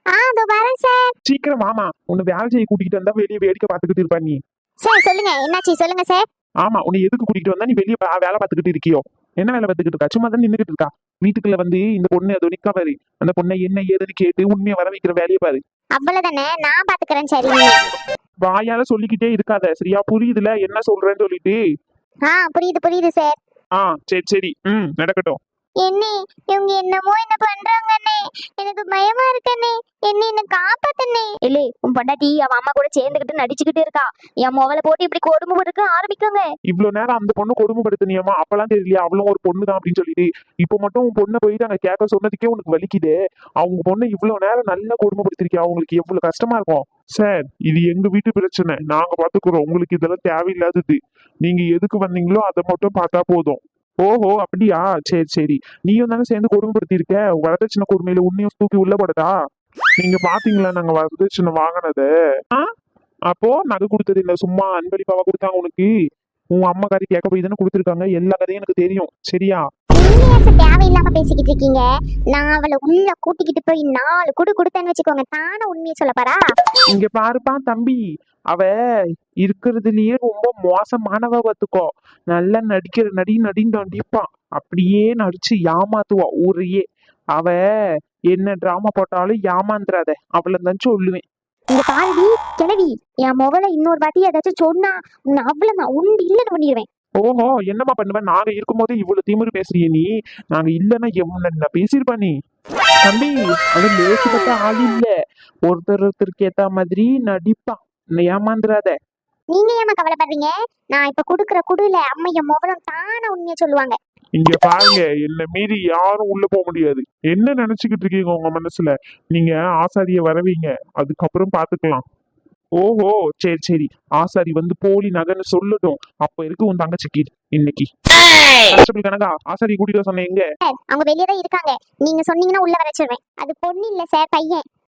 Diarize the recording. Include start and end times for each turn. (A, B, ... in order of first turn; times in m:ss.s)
0:00.1-0:01.1 A
0:01.2-0:04.4 B
0:04.8-0:06.2 A
0:06.6-0:15.6 B
0:16.0-0:17.8 A
0:18.4-0:21.6 B
0:22.2-0:23.3 A
0:23.8-0:25.4 B
0:25.8-0:31.3 A
0:31.4-0:36.4 C
0:36.7-0:59.3 B
1:00.0-1:02.6 B
1:03.3-1:05.9 B
1:06.5-1:09.6 B
1:09.9-1:16.4 A
1:16.9-1:18.7 B
1:19.4-1:26.8 B
1:28.3-1:31.2 B
1:31.7-1:36.8 C
1:37.2-1:42.3 B
1:43.0-1:45.1 B
1:45.7-1:48.9 B
1:49.5-1:54.0 A
1:54.4-2:02.0 B
2:02.8-2:07.9 B
2:08.7-2:10.4 B
2:10.6-2:14.6 A